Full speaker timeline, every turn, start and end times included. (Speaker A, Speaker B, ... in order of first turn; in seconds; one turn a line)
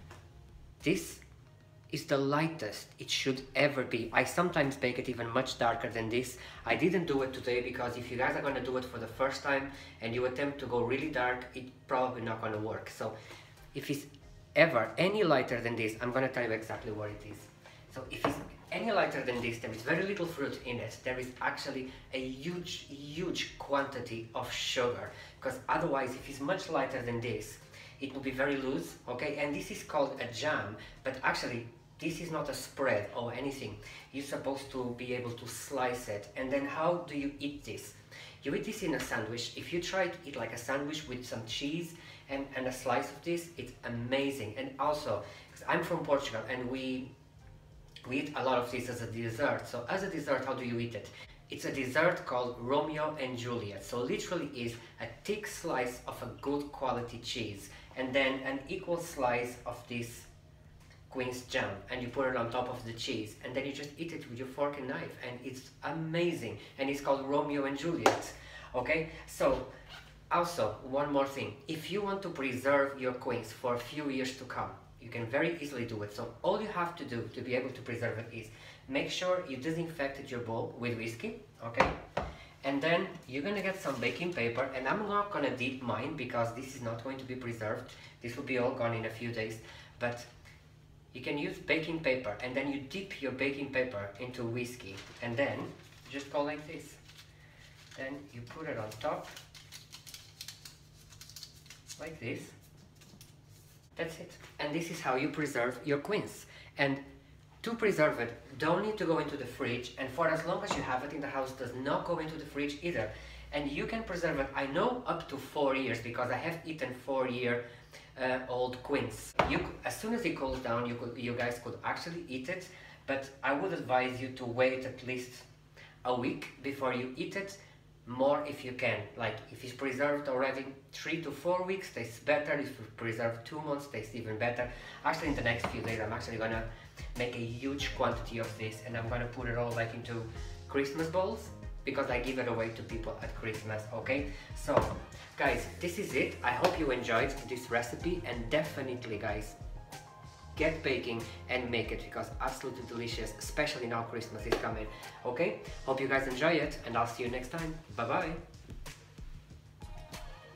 Speaker A: 0.8-1.2
Speaker A: 1.9-13.1
Speaker A: 13.7-47.1
Speaker A: 48.0-60.3
Speaker A: 61.1-69.7
Speaker A: 70.3-82.0
Speaker A: 82.6-90.3
Speaker A: 91.1-97.0
Speaker A: 98.0-99.4
Speaker A: 102.0-102.6
Speaker A: 104.0-107.0
Speaker A: 107.6-117.6
Speaker A: 118.2-125.5
Speaker A: 126.0-149.6
Speaker A: 150.6-158.4